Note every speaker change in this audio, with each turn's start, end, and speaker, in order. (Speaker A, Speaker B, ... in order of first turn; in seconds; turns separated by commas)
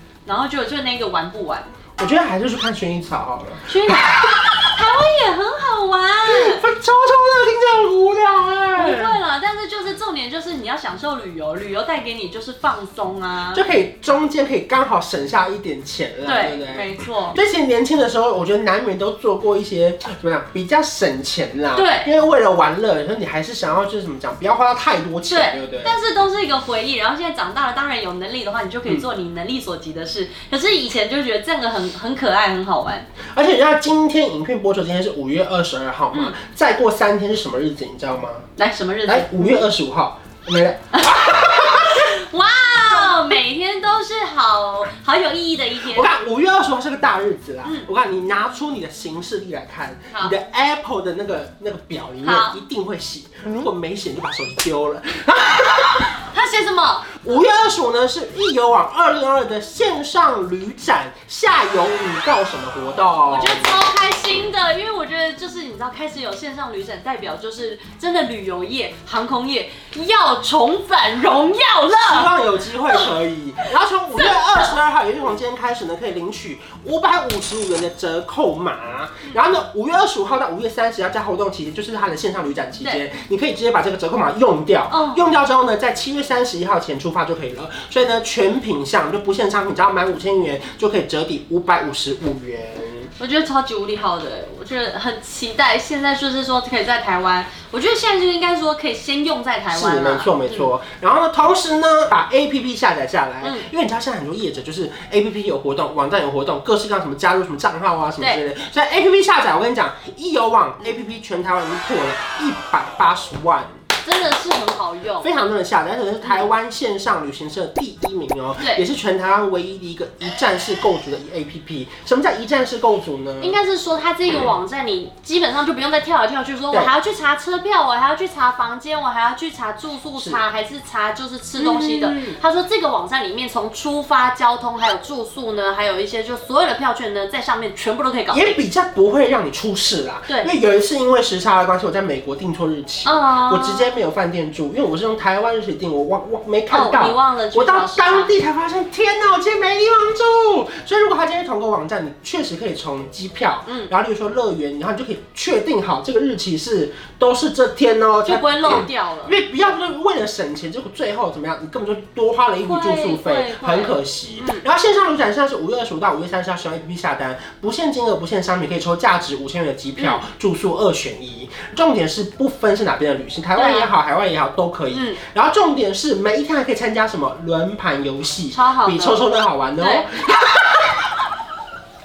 Speaker A: 0.2-1.7, Speaker B: 2.0-4.8, Speaker A: 3.7-6.6, Speaker B: 6.2-9.2, Speaker A: 8.7-13.6, Speaker B: 13.5-25.9, Speaker A: 16.2-17.4, Speaker A: 21.7-22.1, Speaker A: 25.3-33.1, Speaker B: 33.3-38.5, Speaker A: 36.1-36.4, Speaker A: 38.6-39.6, Speaker B: 39.1-42.1, Speaker A: 40.9-46.1, Speaker B: 45.8-56.2, Speaker A: 52.2-52.6, Speaker A: 56.3-57.2, Speaker B: 57.2-63.8, Speaker A: 63.3-72.3, Speaker B: 72.0-93.1, Speaker A: 74.2-74.7, Speaker A: 84.9-85.2, Speaker A: 93.2-100.7, Speaker B: 99.7-113.7, Speaker A: 103.4-103.7, Speaker A: 114.0-115.3, Speaker B: 115.2-123.6, Speaker A: 118.6-118.8, Speaker A: 123.4-138.6, Speaker B: 131.6-132.4, Speaker B: 138.3-181.2, Speaker A: 143.0-143.9, Speaker A: 146.7-148.3, Speaker A: 153.7-153.9, Speaker A: 158.2-159.3, Speaker A: 162.6-164.6, Speaker A: 173.5-173.9, Speaker A: 174.9-175.2, Speaker A: 178.5-179.2, Speaker A: 179.8-180.1